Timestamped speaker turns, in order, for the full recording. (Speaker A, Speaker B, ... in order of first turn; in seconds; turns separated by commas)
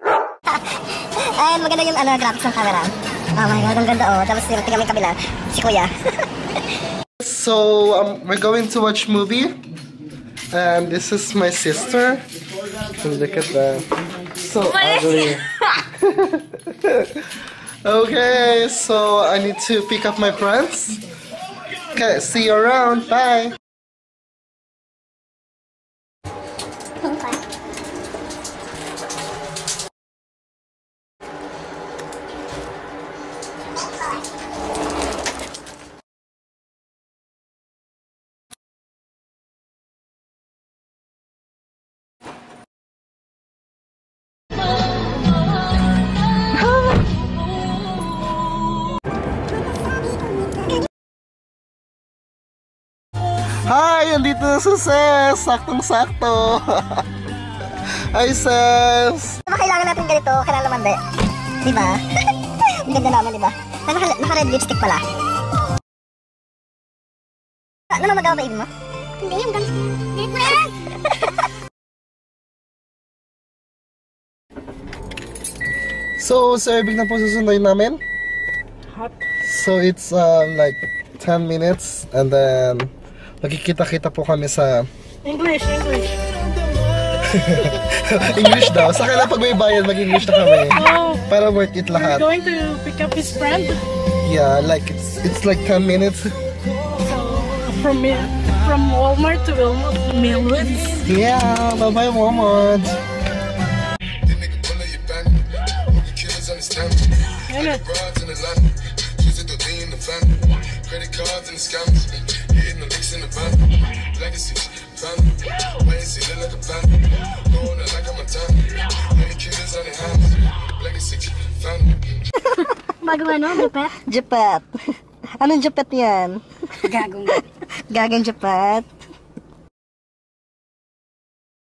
Speaker A: 0.5-6.3, Speaker B: 7.2-9.6, Speaker B: 10.5-12.2, Speaker B: 13.0-21.0, Speaker B: 21.9-23.6, Speaker B: 46.6-47.0, Speaker B: 53.6-57.1, Speaker B: 57.7-59.4, Speaker A: 59.5-61.0, Speaker A: 61.6-62.0, Speaker A: 62.6-65.1, Speaker A: 67.9-68.7, Speaker A: 70.3-70.8, Speaker B: 76.2-78.0, Speaker C: 79.0-79.2, Speaker B: 79.4-84.9, Speaker C: 85.2-86.3, Speaker B: 87.1-92.3, Speaker C: 90.7-91.2, Speaker C: 91.9-93.8, Speaker B: 94.2-96.5, Speaker C: 97.0-101.0, Speaker B: 101.1-103.0, Speaker D: 104.2-107.4, Speaker C: 107.5-108.0, Speaker D: 108.0-122.1, Speaker C: 123.0-123.9, Speaker A: 123.7-128.9, Speaker C: 127.0-127.4